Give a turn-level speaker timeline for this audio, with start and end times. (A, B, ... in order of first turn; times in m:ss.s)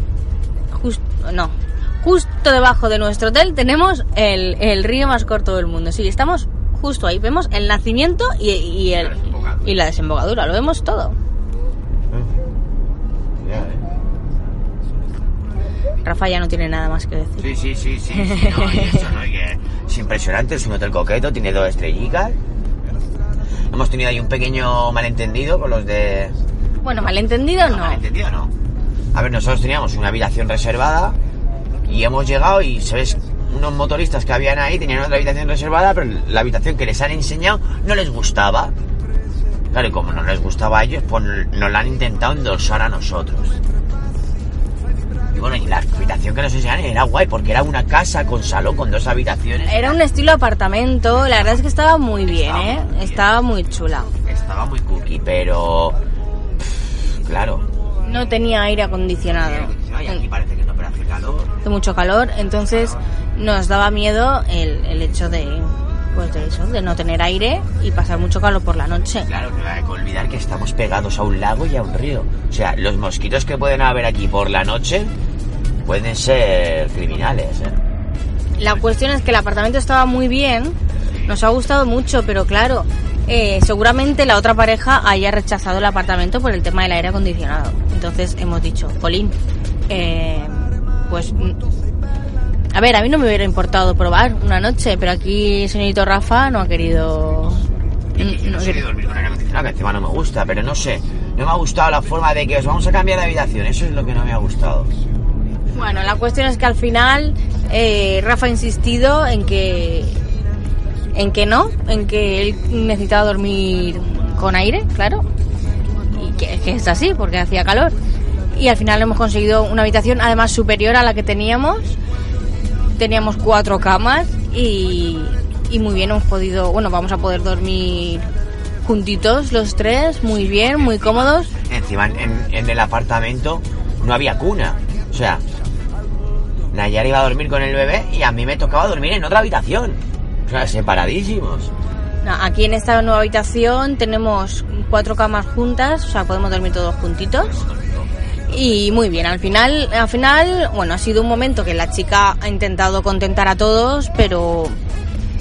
0:00.7-0:11.2 A
0:08.9-0:09.7 B
0:13.4-0:13.8 B
0:16.0-0:17.5 A
0:17.4-0:22.4 B
0:18.2-0:19.0 A
0:23.7-0:26.4 B
0:26.8-0:28.0 A
0:27.6-0:28.5 B
0:29.1-0:31.2 B
0:31.8-0:38.7 B
0:39.7-0:43.6 B
0:45.3-0:50.0 B
0:49.6-0:54.1 A
0:51.1-0:51.6 B
0:52.2-0:53.3 B
0:54.2-0:56.0 B
0:56.6-0:57.7 B
0:58.0-1:00.2 A
0:59.3-1:01.6 B
1:01.6-1:09.3 A
1:02.4-1:03.0 B
1:09.2-1:15.1 B
1:15.8-1:17.8 B
1:18.6-1:29.4 A
1:21.0-1:21.3 B
1:29.9-1:31.6 A
1:32.7-1:37.6 A
1:38.1-1:44.9 B
1:38.2-1:38.8 A
1:45.7-1:50.2 A
1:51.1-1:55.2 A
1:56.1-1:57.9 A
1:58.5-2:02.0 A
2:03.0-2:08.3 A
2:08.8-2:11.5 A
2:10.2-2:15.4 B
2:16.7-2:21.7 B
2:22.2-2:27.5 A
2:27.4-2:29.1 B
2:28.5-2:34.8 A